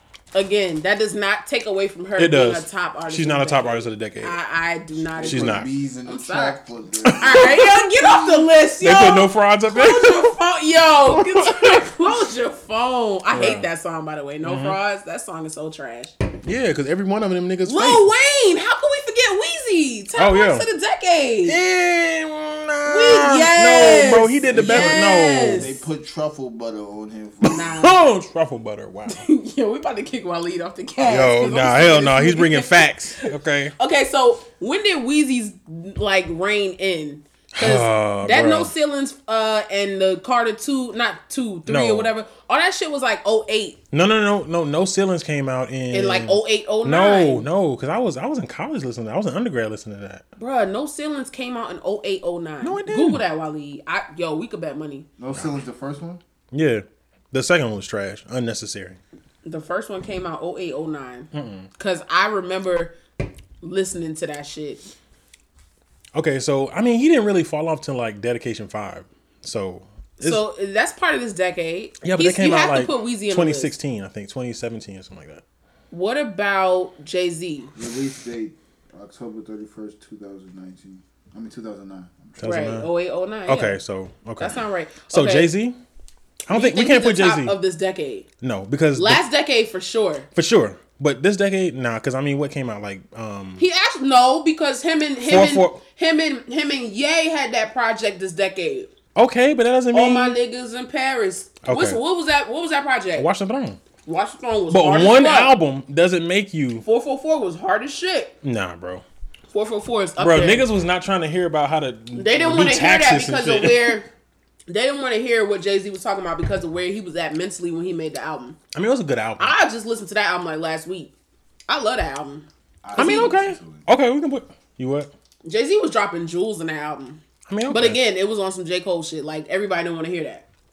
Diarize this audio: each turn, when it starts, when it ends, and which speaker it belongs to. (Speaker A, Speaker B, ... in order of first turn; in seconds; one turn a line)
Speaker A: 0.3-6.6
Speaker B: 2.2-4.4
Speaker C: 5.0-7.6
Speaker B: 5.2-5.7
Speaker B: 7.0-10.3
Speaker A: 7.2-16.2
Speaker B: 11.1-11.8
Speaker B: 13.3-13.7
Speaker B: 14.4-14.8
Speaker B: 16.4-18.1
Speaker A: 17.6-21.6
Speaker B: 20.1-20.6
Speaker B: 21.4-25.7
Speaker A: 22.9-25.8
Speaker C: 24.5-27.7
Speaker B: 27.4-29.2
Speaker A: 27.5-28.0
Speaker A: 29.1-43.8
Speaker B: 31.0-33.7
Speaker B: 37.5-38.7
Speaker B: 41.7-42.1
Speaker B: 43.9-50.2
Speaker A: 45.9-47.5
Speaker A: 50.4-55.1
Speaker B: 52.6-53.2
Speaker C: 55.2-56.2
Speaker B: 56.5-59.0
Speaker A: 59.4-63.0
Speaker B: 61.3-61.7
Speaker A: 63.6-64.8
Speaker B: 66.1-70.4
Speaker A: 70.2-73.7
Speaker B: 72.0-75.4
Speaker A: 75.9-77.7
Speaker C: 77.7-82.5
Speaker B: 82.4-82.9
Speaker A: 82.4-83.8
Speaker B: 83.5-85.8
Speaker A: 84.4-85.5
Speaker B: 86.5-87.5
Speaker A: 86.5-88.2
Speaker B: 88.4-89.2
Speaker A: 89.0-90.3
Speaker B: 90.3-93.6
Speaker A: 93.6-98.9
Speaker B: 95.2-95.8
Speaker B: 99.1-100.3
Speaker A: 99.9-103.3
Speaker B: 101.6-102.0
Speaker B: 103.2-103.8
Speaker A: 104.0-105.5
Speaker B: 104.7-106.8
Speaker A: 106.8-108.3
Speaker B: 108.4-109.0
Speaker A: 109.5-110.7
Speaker B: 110.2-114.0
Speaker A: 112.2-114.1
Speaker A: 114.7-118.6
Speaker B: 118.7-119.5
Speaker A: 119.4-121.1
Speaker A: 121.7-123.4
Speaker C: 122.8-123.9
Speaker B: 123.0-125.1
Speaker A: 125.4-130.4
Speaker B: 127.5-128.0